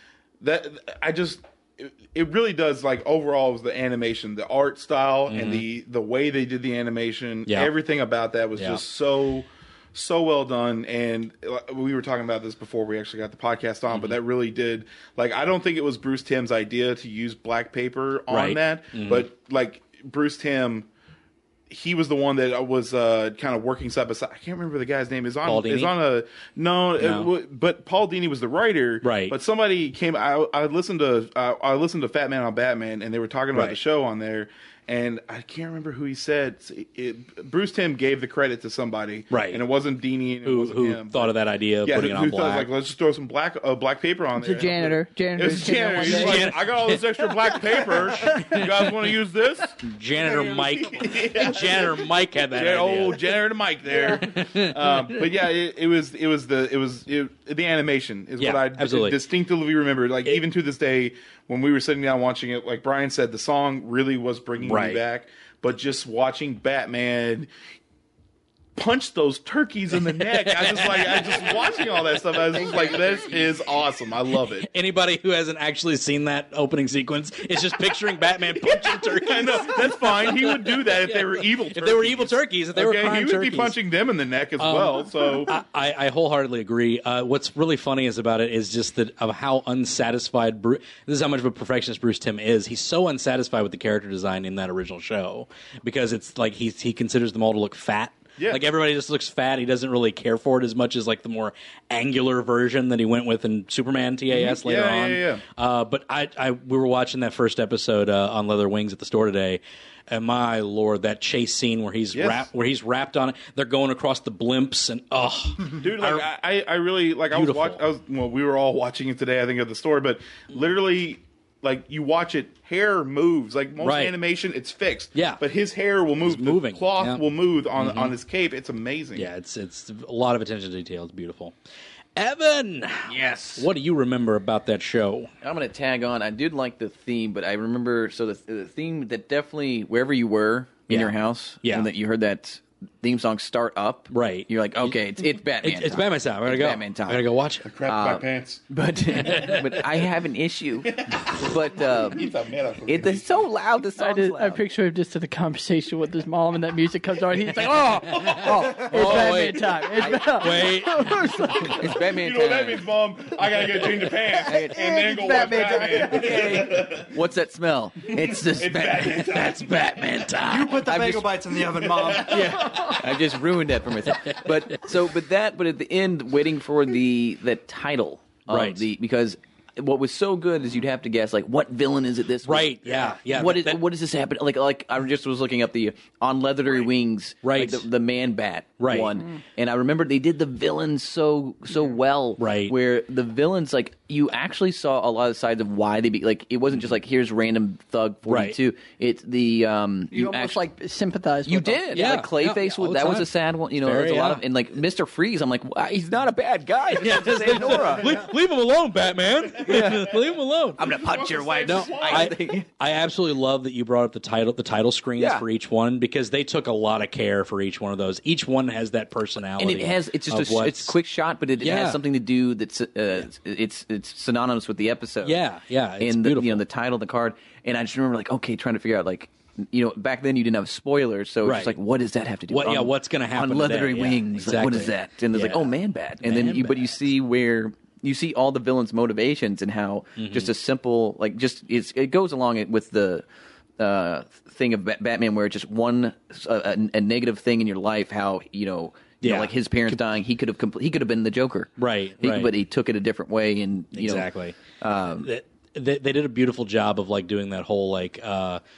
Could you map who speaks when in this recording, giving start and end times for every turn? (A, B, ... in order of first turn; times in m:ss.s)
0:00.4-0:20.9 A
0:05.3-0:05.6 B
0:07.5-0:07.7 B
0:08.6-0:08.8 B
0:18.3-0:19.2 B
0:21.7-0:41.3 A
0:25.4-0:25.9 B
0:27.0-0:27.3 B
0:29.0-0:29.4 B
0:33.5-0:33.8 B
0:39.3-0:39.6 B
0:40.4-0:42.7 B
0:41.8-1:07.5 A
0:44.4-0:46.5 C
0:46.0-0:47.0 B
0:48.1-0:49.1 B
0:49.8-0:53.3 B
0:54.1-0:55.3 B
0:58.4-0:59.2 B
1:04.6-1:05.0 B
1:08.7-1:14.7 A
1:09.9-1:12.7 B
1:12.6-1:13.5 D
1:14.3-1:23.8 B
1:18.7-1:25.6 A
1:24.6-1:56.3 B
1:44.3-1:45.4 A
1:52.1-1:52.4 A
1:55.7-2:09.3 A
1:57.3-1:57.8 B
2:03.8-2:04.1 B
2:05.1-2:05.4 B
2:06.2-2:07.2 B
2:07.8-2:08.2 B
2:09.1-2:11.5 B
2:12.2-2:15.3 B
2:13.1-2:13.7 D
2:15.4-2:27.2 D
2:20.9-2:21.9 B
2:24.1-2:25.0 B
2:25.6-2:27.7 B
2:27.6-2:28.6 A
2:27.8-2:32.3 D
2:29.2-2:29.8 B
2:30.9-2:33.2 A
2:32.8-2:34.6 D
2:34.0-2:41.9 C
2:38.1-2:39.6 B
2:38.9-2:40.3 D
2:40.1-2:41.7 B
2:41.7-2:42.8 D
2:41.8-2:47.1 A
2:44.4-2:44.8 D
2:44.5-2:46.5 C
2:45.9-2:49.7 D
2:48.1-2:49.8 A
2:49.2-2:50.9 B
2:50.4-2:52.6 E
2:50.8-2:51.3 D
2:52.0-2:53.0 A
2:52.1-3:20.6 D
2:54.1-2:54.8 B
2:58.5-2:58.8 B
3:02.4-3:03.8 B
3:07.4-3:07.8 B
3:08.8-3:09.1 B
3:12.4-3:12.7 B
3:18.3-3:18.6 B
3:20.1-3:22.2 C
3:21.4-3:28.2 D
3:21.9-3:24.4 B
3:27.0-3:30.9 B
3:29.6-3:30.1 D
3:30.8-3:32.6 D
3:30.8-3:32.4 A
3:31.6-3:40.9 B
3:35.2-3:35.4 D
3:39.6-3:45.4 D
3:41.6-3:42.0 B
3:45.2-3:46.6 B
3:46.0-4:03.2 D
3:51.4-3:51.8 B
3:52.5-3:56.9 B
4:00.2-4:00.5 B
4:03.8-4:14.3 D
4:09.2-4:10.0 B
4:11.8-4:12.5 B
4:13.9-4:14.6 B
4:14.8-4:15.3 D
4:15.2-4:18.6 B